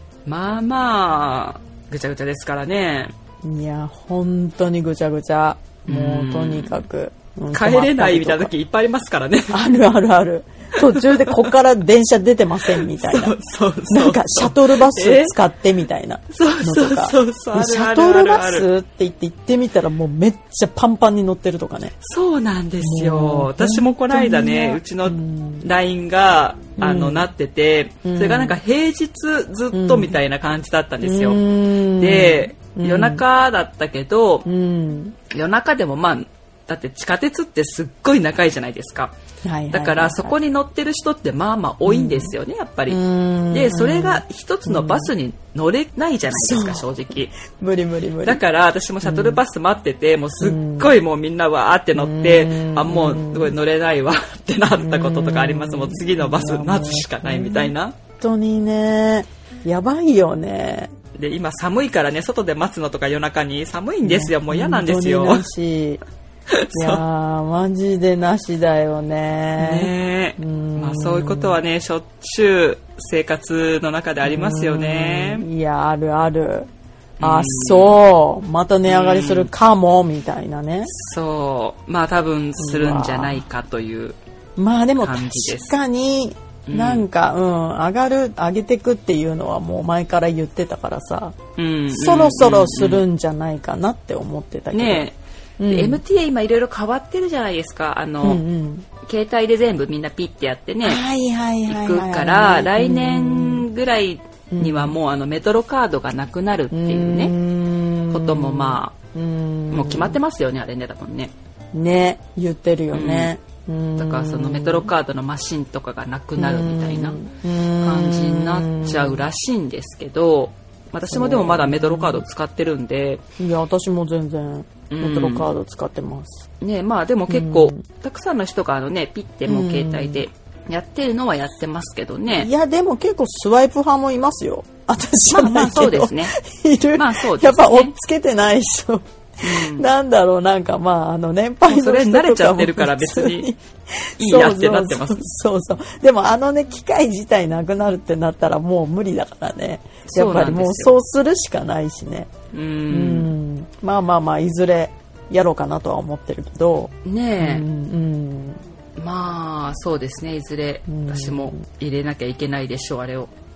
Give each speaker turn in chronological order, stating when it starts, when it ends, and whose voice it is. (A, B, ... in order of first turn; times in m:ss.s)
0:00.3-0:03.1 A
0:03.4-0:08.5 B
0:05.9-0:06.8 A
0:07.5-0:09.7 A
0:09.5-0:13.4 B
0:10.9-0:11.5 A
0:12.7-0:15.4 A
0:13.9-0:21.9 B
0:16.3-0:18.7 A
0:22.0-0:34.5 A
0:22.8-0:25.7 B
0:26.8-0:27.2 B
0:28.0-0:28.6 B
0:29.7-0:30.2 B
0:31.0-0:33.2 B
0:34.5-0:35.2 B
0:35.3-0:39.2 A
0:39.4-0:40.4 B
0:39.7-0:47.4 A
0:41.8-0:42.3 B
0:42.9-0:45.1 B
0:46.3-0:48.4 B
0:48.2-0:58.0 A
0:49.0-0:49.4 B
0:50.4-0:50.9 B
0:52.0-0:53.6 B
0:54.8-1:00.9 B
1:01.2-1:05.5 A
1:04.0-1:06.0 B
1:06.5-1:07.0 A
1:06.7-1:11.6 B
1:09.6-1:15.5 A
1:14.2-1:16.7 B
1:17.2-1:18.0 A
1:17.2-1:20.9 B
1:18.9-1:19.5 A
1:20.9-1:24.2 A
1:22.6-1:23.4 B
1:24.6-1:31.4 B
1:25.0-1:25.7 A
1:26.7-1:27.1 A
1:31.6-1:33.0 A
1:31.9-1:35.0 B
1:34.7-1:38.4 A
1:35.6-1:36.0 B
1:38.2-1:38.9 B
1:39.0-1:41.0 A
1:40.8-1:43.7 B
1:41.7-1:47.4 A
1:44.5-1:45.0 B
1:46.7-1:50.2 B
1:48.1-1:49.0 A
1:49.7-1:51.3 A
1:51.7-1:54.9 B
1:52.9-1:53.3 A
1:54.0-1:57.2 A
1:56.4-1:59.3 B
1:57.8-2:03.2 A
2:01.1-2:02.2 B
2:03.4-2:06.4 B
2:04.9-2:05.5 A
2:06.6-2:12.5 A
2:07.3-2:07.8 B
2:09.5-2:10.2 B
2:12.3-2:32.3 B
2:15.3-2:16.4 A
2:17.0-2:18.0 A
2:19.4-2:19.9 A
2:21.7-2:23.5 A
2:24.2-2:25.3 A
2:30.1-2:31.0 A
2:32.5-2:33.3 A
2:32.9-2:38.6 B
2:37.0-2:37.7 A
2:39.0-2:43.3 A
2:40.9-2:41.6 B